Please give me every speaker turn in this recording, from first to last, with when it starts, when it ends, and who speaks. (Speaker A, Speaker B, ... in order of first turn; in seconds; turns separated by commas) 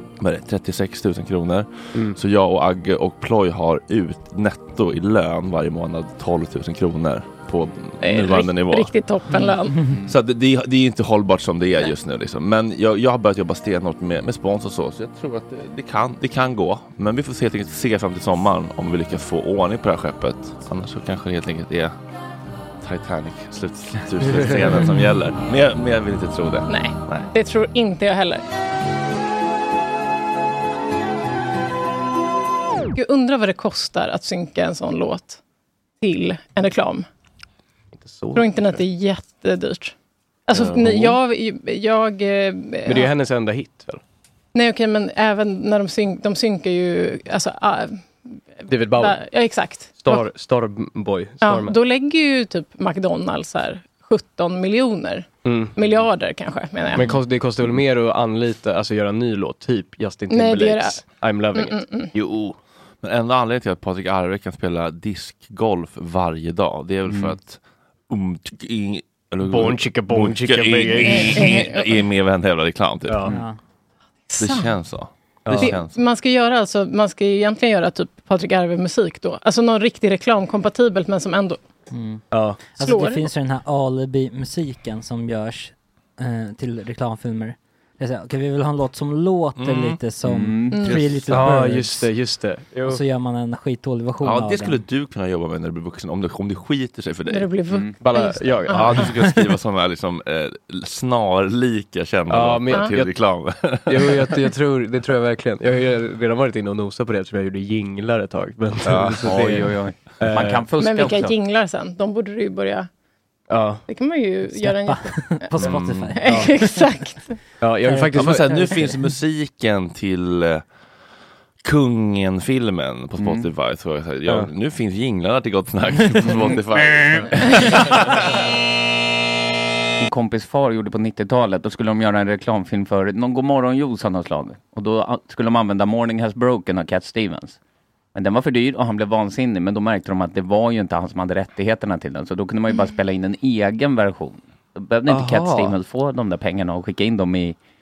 Speaker A: 0.2-8.9, Speaker B: 8.0-9.8, Speaker A: 10.1-21.9, Speaker A: 22.8-27.3, Speaker B: 26.7-28.4, Speaker B: 32.9-35.4, Speaker B: 36.0-37.0, Speaker C: 38.0-38.8, Speaker B: 38.3-39.9, Speaker B: 40.5-43.1, Speaker A: 40.6-40.9, Speaker C: 40.7-41.1, Speaker C: 42.9-44.0, Speaker B: 44.5-50.3, Speaker C: 48.7-49.2, Speaker C: 50.0-51.8, Speaker B: 51.4-57.1, Speaker C: 55.4-56.0, Speaker C: 56.9-61.8, Speaker B: 60.3-62.1, Speaker A: 62.1-73.3, Speaker D: 67.1-67.3, Speaker C: 69.4-71.5, Speaker B: 71.0-72.0, Speaker C: 73.1-73.3, Speaker E: 73.3-73.6, Speaker B: 74.3-74.7, Speaker A: 74.4-75.9, Speaker C: 75.4-75.8, Speaker B: 75.6-81.6, Speaker E: 81.9-92.1, Speaker C: 82.3-82.7, Speaker B: 82.8-83.3, Speaker A: 89.6-90.0, Speaker D: 90.2-90.9, Speaker A: 90.9-91.4, Speaker C: 91.3-93.0, Speaker E: 92.9-94.8, Speaker A: 94.2-97.5, Speaker B: 97.3-99.0, Speaker D: 97.7-97.9, Speaker C: 98.0-99.1, Speaker A: 98.7-104.3, Speaker C: 102.3-103.3, Speaker C: 103.9-110.7, Speaker A: 108.8-109.4, Speaker D: 109.2-111.3, Speaker B: 110.8-112.9, Speaker C: 113.5-113.8, Speaker B: 113.8-117.4, Speaker E: 114.5-116.7, Speaker A: 115.6-116.2, Speaker C: 117.6-118.8, Speaker E: 117.8-118.9, Speaker A: 118.1-120.6, Speaker A: 121.6-128.2, Speaker D: 123.2-123.5, Speaker D: 126.7-127.3, Speaker D: 130.0-137.6, Speaker D: 138.1-147.6, Speaker C: 145.1-145.7